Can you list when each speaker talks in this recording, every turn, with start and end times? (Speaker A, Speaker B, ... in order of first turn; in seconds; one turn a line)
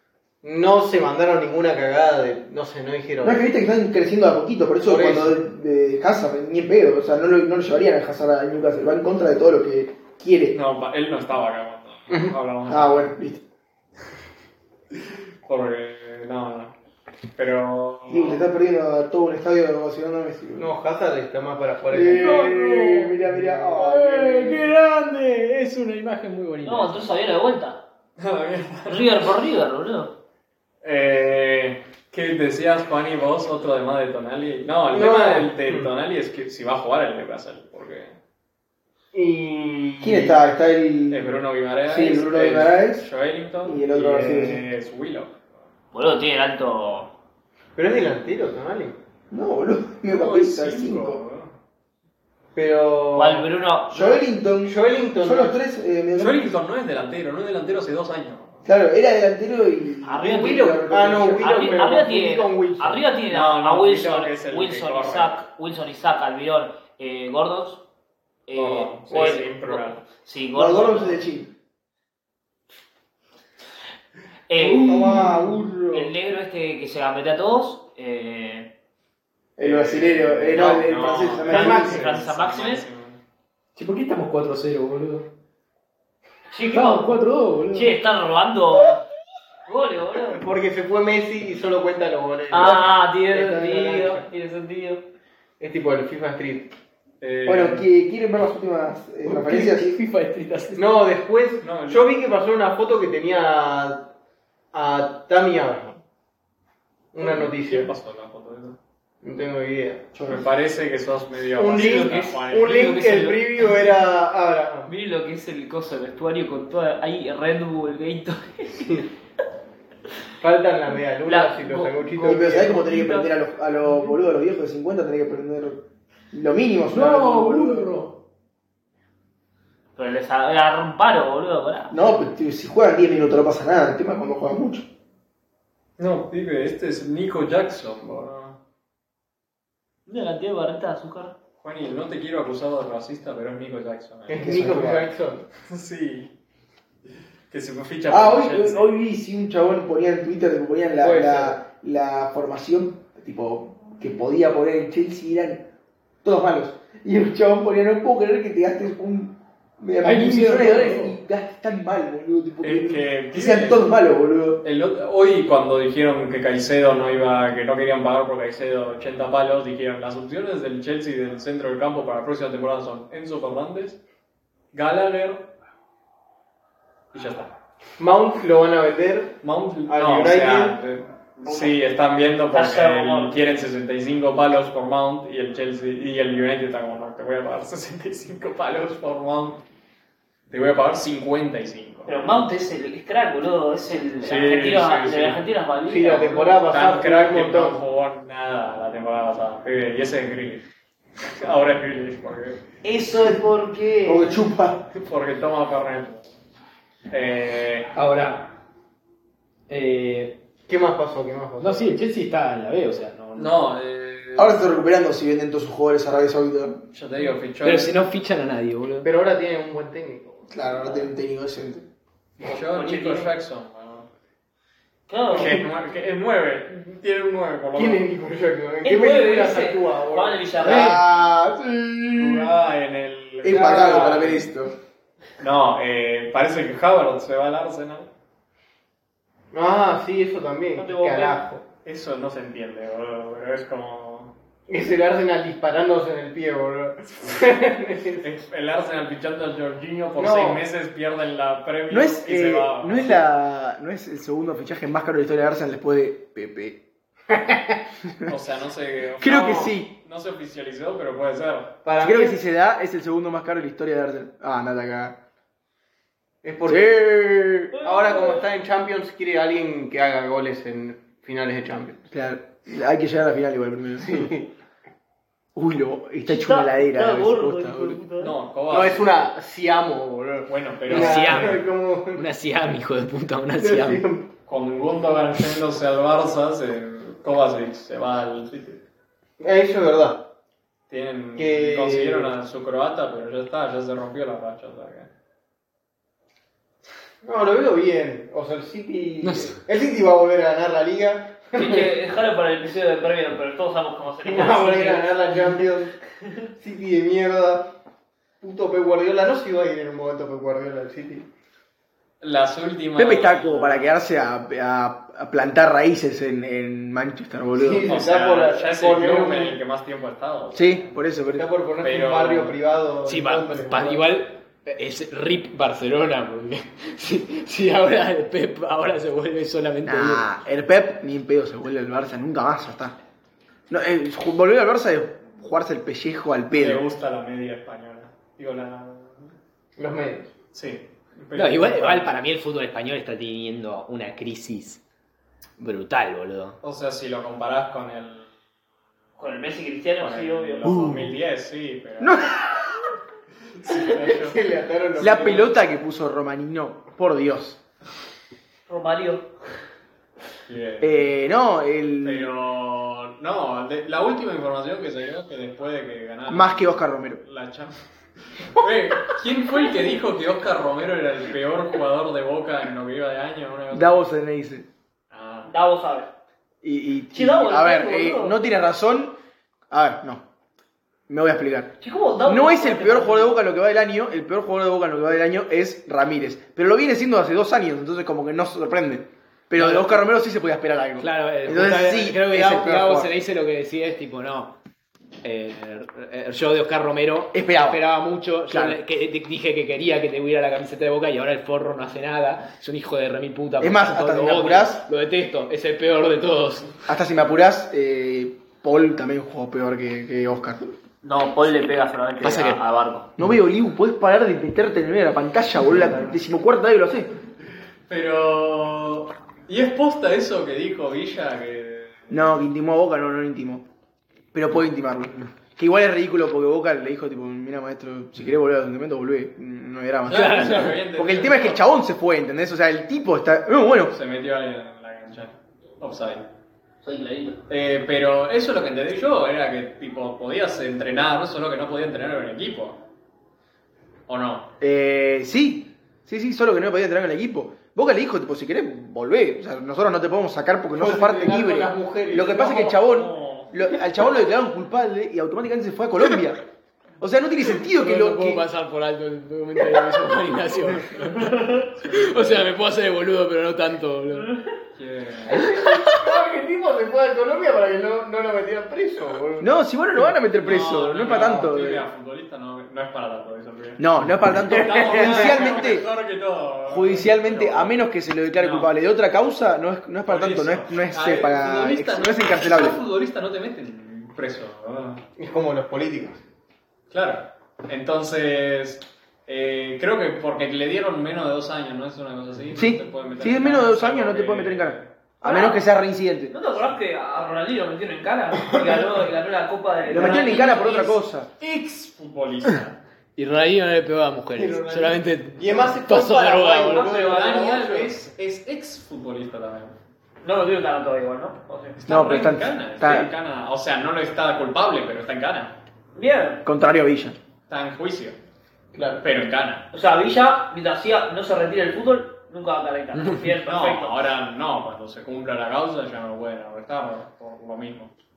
Speaker A: 0.4-3.4
Speaker B: 3.2-10.6
Speaker A: 4.8-5.4
Speaker C: 10.5-13.1
Speaker A: 12.1-12.3
Speaker B: 12.7-13.4
Speaker C: 15.4-16.7
Speaker C: 17.4-18.4
Speaker B: 18.1-20.7
Speaker A: 20.5-22.6
Speaker B: 21.9-24.7
Speaker D: 22.1-27.1
Speaker E: 26.6-27.8
Speaker C: 28.2-29.2
Speaker E: 28.9-30.1
Speaker C: 30.8-38.1
Speaker A: 34.9-35.9
Speaker A: 39.1-40.4
Speaker B: 40.0-43.1
Speaker C: 41.1-45.4
Speaker B: 43.6-44.6
Speaker E: 45.9-47.1
Speaker A: 47.8-49.0
Speaker B: 49.3-51.2
Speaker C: 50.0-51.5
Speaker A: 52.5-53.5
Speaker E: 53.1-54.2
Speaker B: 53.9-56.5
Speaker A: 54.6-55.6
Speaker C: 56.1-58.6
Speaker B: 58.6-61.6
Speaker E: 60.0-60.8
Speaker A: 60.4-63.0
Speaker E: 61.4-67.8
Speaker C: 63.3-65.3
Speaker E: 68.5-71.2
Speaker C: 68.5-70.0
Speaker A: 69.1-69.4
Speaker B: 70.5-71.5
Speaker E: 74.5-75.3
Speaker B: 74.6-76.1
Speaker A: 74.8-75.2
Speaker E: 75.8-78.7
Speaker B: 79.6-82.0
Speaker C: 79.6-83.2
Speaker E: 80.5-80.9
Speaker E: 81.5-82.8
Speaker D: 83.8-85.3
Speaker E: 86.5-87.1
Speaker D: 86.7-87.9
Speaker E: 87.7-89.0
Speaker E: 89.7-90.4
Speaker A: 90.3-94.2
Speaker E: 92.5-95.0
Speaker A: 95.6-96.7
Speaker C: 97.2-97.9
Speaker B: 97.5-100.0
Speaker D: 99.2-100.8
Speaker A: 100.7-104.1
Speaker C: 101.6-102.1
Speaker A: 104.7-106.0
Speaker A: 107.1-107.9
Speaker C: 107.2-108.8
Speaker A: 109.2-110.1
Speaker C: 110.1-113.1
Speaker A: 111.5-114.9
Speaker E: 111.7-112.3
Speaker E: 112.9-113.6
Speaker E: 114.8-119.0
Speaker A: 118.8-119.1
Speaker A: 120.4-122.8
Speaker E: 121.2-123.3
Speaker B: 122.2-127.9
Speaker D: 126.9-128.1
Speaker E: 129.9-131.9
Speaker B: 131.9-134.9
Speaker C: 136.0-138.6
Speaker E: 140.1-141.3
Speaker C: 141.6-144.8
Speaker A: 144.3-145.4
Speaker B: 144.4-145.1
Speaker C: 145.6-146.3
Speaker C: 147.5-148.9
Speaker B: 148.1-155.7
Speaker A: 151.0-151.6
Speaker B: 156.2-164.6
Speaker D: 160.0-161.2
Speaker C: 162.6-163.8
Speaker C: 164.6-174.0
Speaker C: 174.7-175.5
Speaker C: 177.1-177.5
Speaker A: 178.0-180.8
Speaker C: 179.4-189.6
Speaker E: 181.4-181.7
Speaker E: 182.5-183.3
Speaker C: 190.5-192.4
Speaker E: 192.1-196.6
Speaker C: 194.2-195.4
Speaker A: 195.8-197.8
Speaker C: 196.7-200.6
Speaker C: 201.3-202.6
Speaker E: 202.8-204.4
Speaker B: 204.0-204.9
Speaker C: 204.9-206.2
Speaker C: 207.1-207.9
Speaker D: 207.9-208.5
Speaker D: 209.7-210.4
Speaker A: 210.7-211.9
Speaker D: 211.6-213.5
Speaker C: 213.3-214.6
Speaker B: 214.3-216.8
Speaker C: 216.9-218.0
Speaker D: 217.6-219.1
Speaker A: 219.0-220.5
Speaker B: 220.5-221.8
Speaker C: 222.4-224.1
Speaker E: 222.5-223.3
Speaker E: 225.1-225.6
Speaker C: 225.3-228.0
Speaker A: 227.7-230.5
Speaker E: 228.8-231.0
Speaker B: 230.6-232.5
Speaker D: 230.7-230.9
Speaker C: 232.2-234.5
Speaker B: 233.4-234.7
Speaker A: 233.5-234.2
Speaker C: 235.4-238.1
Speaker A: 239.5-241.6
Speaker E: 240.8-241.4
Speaker C: 241.8-244.3
Speaker A: 244.7-248.2
Speaker C: 248.2-253.2
Speaker A: 250.2-250.6
Speaker B: 251.9-256.8
Speaker B: 258.1-258.3
Speaker C: 258.2-261.8
Speaker B: 259.2-259.9
Speaker A: 261.8-262.4
Speaker B: 262.0-265.1
Speaker A: 266.4-267.1
Speaker B: 266.7-267.7
Speaker E: 267.7-268.4
Speaker A: 267.8-272.1
Speaker B: 272.1-274.3
Speaker A: 274.0-274.5
Speaker B: 275.5-278.0
Speaker E: 276.2-278.3
Speaker C: 278.2-279.0
Speaker A: 278.7-282.2
Speaker C: 280.5-281.6
Speaker D: 280.9-284.0
Speaker A: 283.6-284.3
Speaker C: 284.5-288.8
Speaker A: 289.4-290.2
Speaker C: 290.9-295.1
Speaker A: 291.4-292.3
Speaker A: 297.2-301.9
Speaker D: 299.2-299.6
Speaker E: 301.6-305.1
Speaker A: 304.2-306.0
Speaker A: 306.6-307.7
Speaker A: 308.4-311.3
Speaker C: 312.2-314.0
Speaker B: 312.9-317.9
Speaker A: 317.6-319.6
Speaker C: 317.8-320.9
Speaker B: 320.5-321.5
Speaker A: 321.3-324.1
Speaker C: 321.8-322.6
Speaker D: 323.1-330.3
Speaker B: 329.8-332.9
Speaker B: 333.7-336.8
Speaker C: 336.5-339.3
Speaker A: 339.8-340.3
Speaker C: 340.5-342.2
Speaker D: 341.3-344.8
Speaker D: 345.6-346.6
Speaker C: 346.6-348.3
Speaker E: 349.2-350.8
Speaker C: 350.0-352.3
Speaker B: 350.6-351.1
Speaker B: 352.0-352.6
Speaker C: 353.6-354.4
Speaker A: 353.7-355.5
Speaker B: 355.0-357.6
Speaker E: 358.7-359.3
Speaker C: 360.4-361.1
Speaker B: 360.8-362.3
Speaker C: 362.0-367.8
Speaker B: 366.3-367.2
Speaker C: 368.3-374.1
Speaker B: 373.7-374.6
Speaker C: 375.1-375.5
Speaker E: 375.5-376.1
Speaker B: 376.6-379.1
Speaker E: 377.1-378.4
Speaker B: 379.7-380.2
Speaker B: 381.1-381.7
Speaker E: 381.8-383.3
Speaker B: 382.2-393.1
Speaker D: 389.6-390.0
Speaker D: 391.0-394.5
Speaker D: 395.2-406.7
Speaker B: 397.3-397.8
Speaker B: 398.5-398.8
Speaker B: 403.6-404.8
Speaker B: 406.9-410.6
Speaker E: 411.0-413.1
Speaker D: 412.2-412.6
Speaker B: 413.2-417.1
Speaker C: 417.9-422.2
Speaker B: 422.1-423.6
Speaker B: 424.3-433.9
Speaker C: 430.1-431.6
Speaker D: 430.1-430.8
Speaker C: 433.9-436.3
Speaker E: 436.8-437.4
Speaker C: 437.5-442.8
Speaker C: 444.1-444.5
Speaker B: 444.6-456.4
Speaker A: 450.7-452.3
Speaker C: 452.1-453.5
Speaker B: 457.0-458.4
Speaker D: 457.7-461.3
Speaker E: 461.2-461.6
Speaker C: 461.6-462.5
Speaker D: 461.8-464.3
Speaker C: 464.7-465.4
Speaker D: 465.3-466.1
Speaker A: 465.4-469.5
Speaker B: 469.4-471.9
Speaker C: 470.4-473.8
Speaker B: 473.8-475.9
Speaker C: 474.4-477.8
Speaker B: 476.7-482.8
Speaker C: 478.3-478.7
Speaker C: 480.1-485.0
Speaker A: 485.2-486.2
Speaker C: 486.9-494.9
Speaker B: 492.6-496.3
Speaker E: 495.2-495.6
Speaker E: 496.3-501.0
Speaker B: 499.9-501.3
Speaker C: 501.4-502.8
Speaker D: 503.1-506.9
Speaker A: 504.3-507.9
Speaker E: 506.7-507.5
Speaker C: 506.9-509.7
Speaker E: 510.2-511.8
Speaker C: 511.8-515.5
Speaker B: 511.9-513.1
Speaker E: 515.9-516.4
Speaker B: 516.4-517.2
Speaker C: 517.5-518.2
Speaker A: 518.7-519.0
Speaker C: 519.0-519.6
Speaker E: 519.7-523.9
Speaker D: 523.0-523.2
Speaker C: 523.4-527.9